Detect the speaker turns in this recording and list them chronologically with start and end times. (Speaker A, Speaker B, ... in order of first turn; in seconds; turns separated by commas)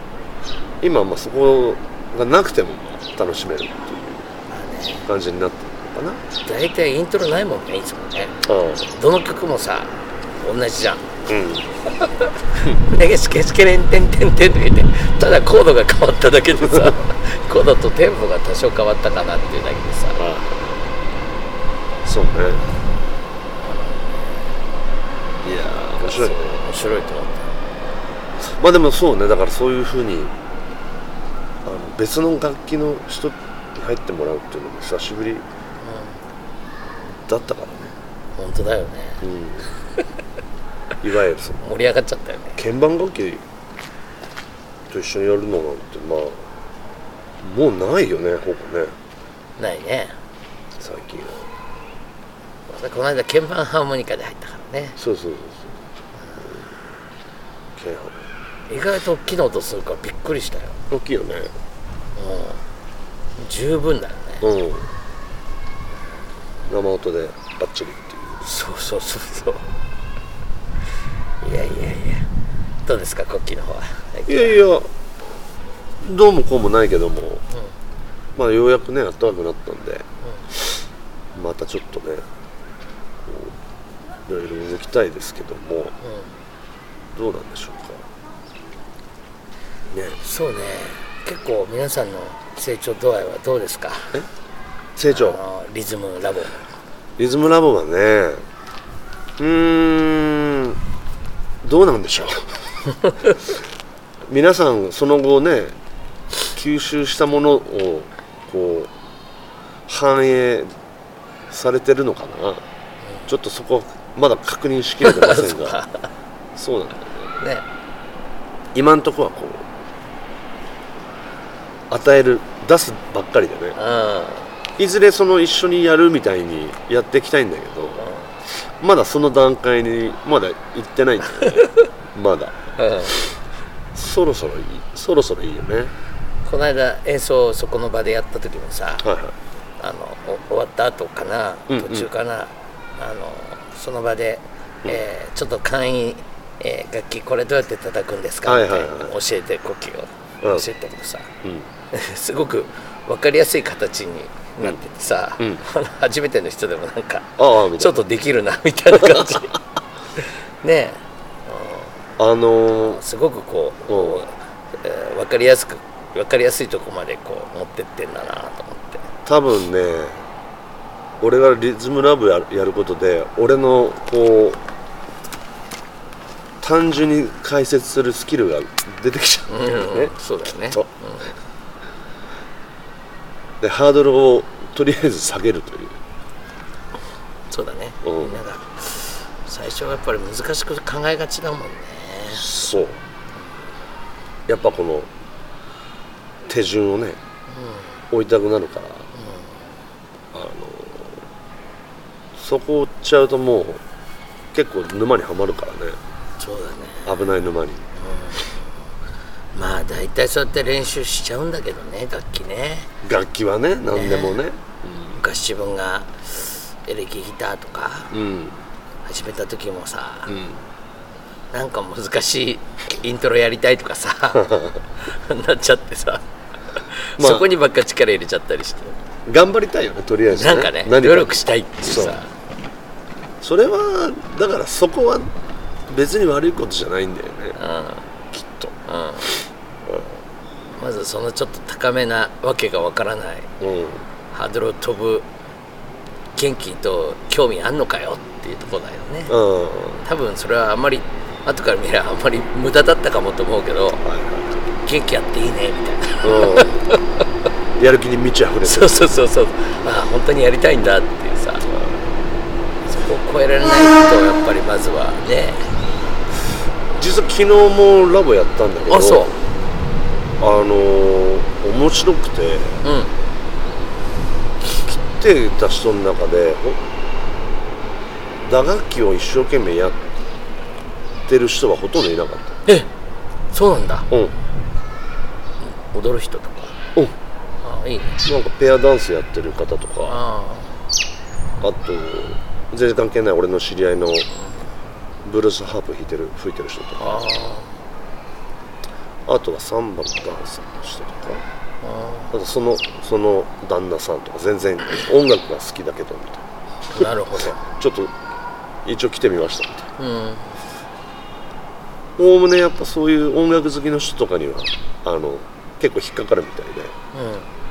Speaker A: 0.8-4.3, Speaker B: 4.5-5.1, Speaker A: 5.0-6.2, Speaker B: 6.4-8.4, Speaker A: 8.4-8.9, Speaker B: 8.9-11.1, Speaker A: 11.3-11.7, Speaker B: 12.0-20.2, Speaker A: 16.6-16.9, Speaker A: 20.2-20.8, Speaker A: 22.0-22.6, Speaker A: 25.4-26.5, Speaker B: 26.0-27.5, Speaker A: 28.4-30.3, Speaker A: 31.6-35.5, Speaker B: 35.8-36.2, Speaker A: 37.1-38.0, Speaker B: 38.4-39.2, Speaker A: 39.2-39.7, Speaker A: 41.0-41.6, Speaker B: 41.6-42.6, Speaker A: 42.6-43.4, Speaker A: 44.9-46.5, Speaker A: 47.4-48.9, Speaker B: 49.6-50.2, Speaker A: 50.8-51.5, Speaker B: 52.7-55.0, Speaker A: 55.0-55.8, Speaker A: 56.4-56.7, Speaker A: 57.7-58.2, Speaker B: 58.7-60.8, Speaker A: 60.9-61.5, Speaker B: 62.1-62.6, Speaker B: 63.4-64.5, Speaker A: 64.4-64.9, Speaker A: 66.7-68.4, Speaker B: 68.4-69.7, Speaker B: 71.4-72.3, Speaker B: 72.8-74.6, Speaker A: 74.3-74.9, Speaker A: 76.0-77.4, Speaker A: 78.3-80.8, Speaker A: 81.3-82.2, Speaker A: 83.2-83.5, Speaker A: 84.2-86.0, Speaker B: 86.0-86.3, Speaker A: 87.1-88.1, Speaker A: 89.9-90.2, Speaker B: 90.2-94.1, Speaker A: 95.0-95.4, Speaker B: 95.1-96.6, Speaker A: 97.2-98.5, Speaker A: 99.4-100.8, Speaker A: 101.6-102.7, Speaker B: 103.0-103.3, Speaker A: 104.3-105.8, Speaker A: 106.5-108.9, Speaker A: 109.9-110.7, Speaker A: 111.5-112.6, Speaker A: 113.3-115.8, Speaker B: 115.0-116.0, Speaker A: 116.5-117.3, Speaker B: 117.4-117.6, Speaker A: 118.7-119.7, Speaker A: 121.9-123.8, Speaker B: 123.8-124.5, Speaker A: 124.8-128.0, Speaker B: 128.0-128.3, Speaker A: 128.8-132.6, Speaker B: 131.3-131.8, Speaker B: 132.8-133.2, Speaker A: 133.9-135.9, Speaker B: 136.4-139.1, Speaker A: 139.0-139.3, Speaker B: 139.8-151.3, Speaker A: 141.7-142.1, Speaker A: 148.4-149.1, Speaker A: 150.4-150.7, Speaker A: 151.4-151.7, Speaker B: 151.9-159.6, Speaker A: 157.4-158.0, Speaker A: 158.9-159.5, Speaker B: 160.2-162.0, Speaker A: 162.2-163.0, Speaker B: 162.8-169.1, Speaker A: 163.9-164.2, Speaker A: 169.2-170.2, Speaker A: 171.2-174.6, Speaker A: 176.6-180.1, Speaker B: 179.5-181.3, Speaker A: 183.6-186.0, Speaker B: 187.5-192.5, Speaker A: 188.0-188.4, Speaker A: 192.3-193.0, Speaker A: 194.5-195.1, Speaker A: 196.5-197.2, Speaker B: 197.5-198.0, Speaker A: 198.1-199.1, Speaker B: 199.1-199.6, Speaker A: 200.3-201.2, Speaker A: 202.3-203.8, Speaker A: 204.5-206.0, Speaker B: 206.4-207.1, Speaker A: 207.1-207.9, Speaker B: 207.9-208.5, Speaker B: 209.5-212.9, Speaker A: 213.0-215.2, Speaker B: 213.9-214.4, Speaker B: 215.2-218.1, Speaker A: 218.1-218.6, Speaker B: 219.0-220.3, Speaker A: 220.3-220.6, Speaker B: 221.5-226.2, Speaker A: 224.3-224.8, Speaker B: 226.7-229.0, Speaker A: 227.2-227.5, Speaker A: 229.2-232.2, Speaker B: 230.3-232.3, Speaker A: 233.4-235.3, Speaker A: 235.9-237.6, Speaker B: 237.6-238.1, Speaker A: 238.3-238.7, Speaker B: 238.8-239.3, Speaker B: 240.7-243.5, Speaker A: 243.6-244.1, Speaker B: 244.3-245.3, Speaker B: 246.3-249.3, Speaker A: 249.3-250.0, Speaker B: 250.0-254.0, Speaker A: 254.0-254.6, Speaker B: 254.6-257.0, Speaker A: 256.2-256.8, Speaker A: 257.8-259.1, Speaker B: 258.6-261.7, Speaker A: 261.7-262.1, Speaker B: 262.9-265.8, Speaker A: 266.9-269.3, Speaker B: 268.9-269.3, Speaker A: 270.4-272.8, Speaker B: 272.8-273.1, Speaker A: 274.8-276.8, Speaker A: 278.4-280.1, Speaker A: 281.2-282.6, Speaker B: 283.5-284.1, Speaker A: 284.1-284.4, Speaker B: 285.6-286.8, Speaker B: 287.6-288.2, Speaker A: 288.2-290.2, Speaker B: 290.1-290.8, Speaker A: 291.6-294.3, Speaker B: 294.4-294.7, Speaker A: 295.2-297.2, Speaker B: 297.0-297.7, Speaker A: 299.2-301.4, Speaker B: 301.8-302.3, Speaker A: 302.3-306.4, Speaker B: 306.9-307.6, Speaker A: 307.0-308.1, Speaker A: 308.8-309.9, Speaker B: 310.0-310.6, Speaker A: 312.2-316.9, Speaker B: 317.1-317.5